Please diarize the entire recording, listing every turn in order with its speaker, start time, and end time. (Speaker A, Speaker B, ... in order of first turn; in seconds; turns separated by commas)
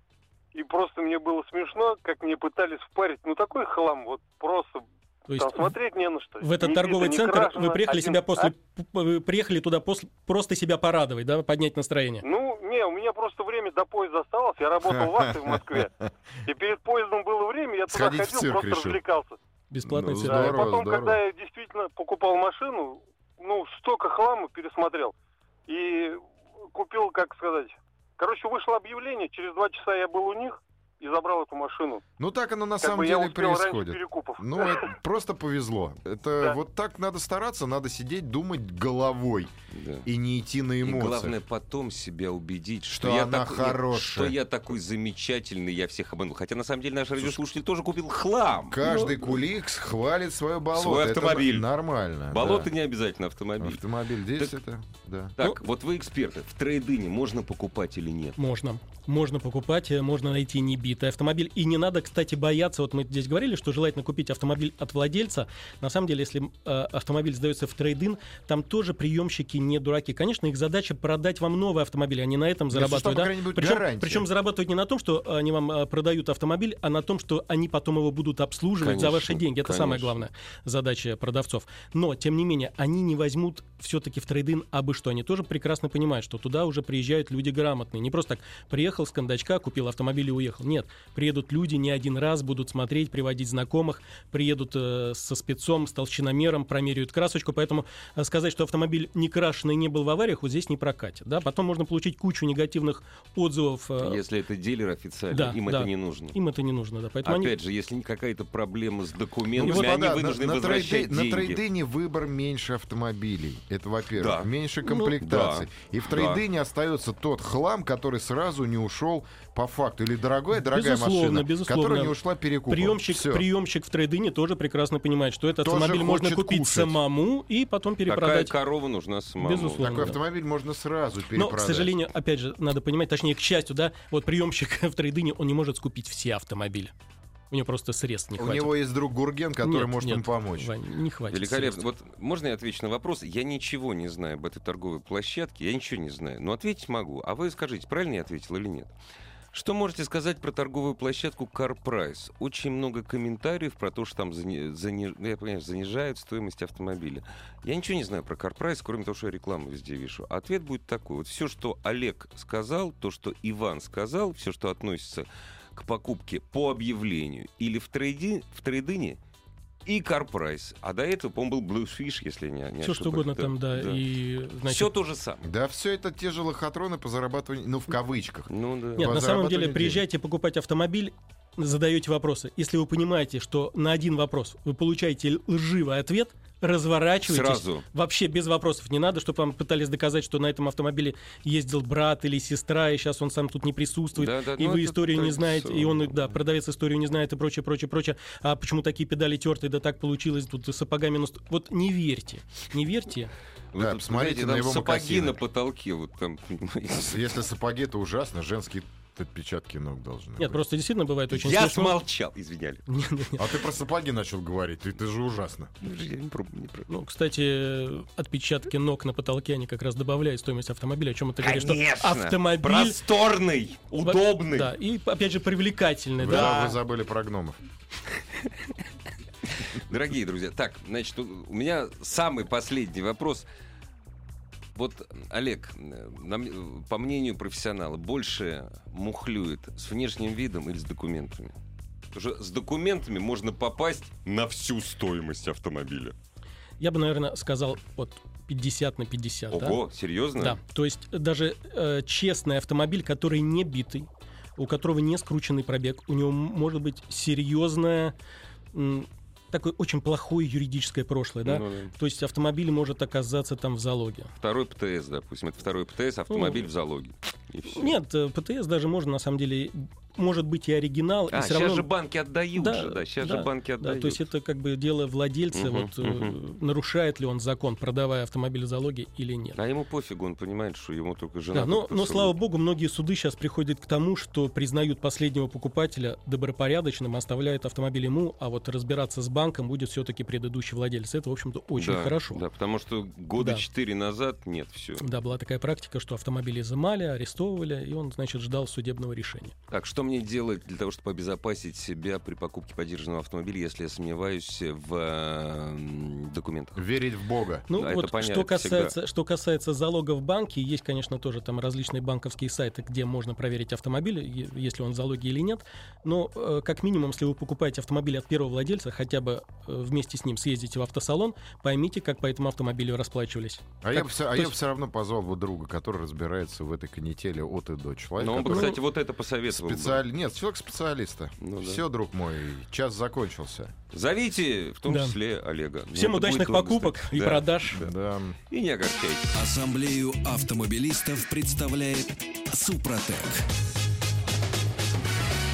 Speaker A: 0.5-8.5, Speaker B: 5.3-5.8, Speaker B: 6.4-12.2, Speaker A: 12.2-15.9, Speaker C: 14.9-15.8, Speaker A: 16.5-19.4, Speaker C: 17.9-19.0, Speaker B: 19.7-20.6, Speaker C: 19.9-21.2, Speaker A: 20.2-25.1, Speaker A: 25.7-32.0, Speaker C: 32.2-39.5, Speaker A: 32.8-34.9, Speaker D: 39.7-40.1, Speaker C: 40.0-41.4, Speaker D: 40.8-48.8, Speaker C: 42.9-44.4, Speaker C: 48.7-52.7, Speaker D: 50.7-51.7, Speaker D: 52.3-53.8, Speaker C: 53.6-55.4, Speaker D: 55.4-58.4, Speaker B: 58.4-104.2, Speaker C: 72.7-74.3, Speaker D: 78.8-80.2, Speaker D: 104.0-106.4, Speaker B: 105.3-107.5, Speaker D: 107.2-111.6, Speaker C: 109.5-123.5, Speaker D: 114.2-114.5, Speaker D: 115.0-116.4, Speaker B: 120.6-122.2, Speaker B: 122.7-128.5, Speaker C: 125.6-127.0, Speaker D: 128.1-130.1, Speaker B: 129.4-130.2, Speaker C: 129.8-132.0, Speaker B: 131.3-136.9, Speaker B: 137.5-138.7, Speaker C: 138.4-140.7, Speaker B: 139.6-141.8, Speaker D: 141.3-148.9, Speaker D: 149.5-169.2, Speaker D: 169.9-174.0, Speaker B: 172.8-174.9, Speaker D: 174.7-175.4, Speaker C: 175.4-180.0, Speaker D: 178.5-179.2, Speaker B: 179.0-203.3, Speaker D: 187.2-187.8, Speaker D: 194.2-196.3, Speaker D: 203.7-207.3, Speaker C: 203.8-205.4, Speaker C: 207.0-210.6, Speaker B: 210.4-212.0, Speaker D: 211.3-212.8, Speaker B: 212.9-213.6, Speaker C: 213.4-215.7, Speaker D: 215.8-216.9, Speaker B: 216.9-223.0, Speaker D: 221.4-224.7, Speaker B: 224.0-226.8, Speaker C: 226.2-227.6, Speaker D: 229.7-233.4, Speaker D: 234.8-241.6, Speaker D: 242.1-246.2, Speaker B: 246.8-249.8, Speaker D: 249.5-250.6, Speaker B: 250.4-258.1, Speaker B: 258.7-264.3, Speaker D: 261.4-261.9, Speaker D: 264.4-268.0, Speaker B: 266.3-266.6, Speaker B: 267.7-271.9, Speaker D: 271.3-274.3, Speaker B: 272.6-279.6, Speaker D: 275.5-276.4, Speaker D: 279.6-282.4, Speaker B: 281.5-292.4, Speaker D: 291.8-295.1, Speaker B: 293.4-293.6, Speaker B: 295.0-299.6, Speaker D: 299.7-306.9, Speaker C: 306.8-307.7, Speaker B: 307.7-324.5, Speaker D: 307.7-308.9, Speaker C: 323.8-328.8, Speaker D: 328.2-330.0, Speaker B: 328.4-328.8, Speaker C: 329.5-333.7, Speaker D: 331.4-331.8, Speaker D: 333.9-337.9, Speaker B: 334.9-335.2, Speaker B: 335.9-337.8, Speaker C: 337.8-338.4, Speaker D: 338.5-339.3, Speaker E: 339.3-343.4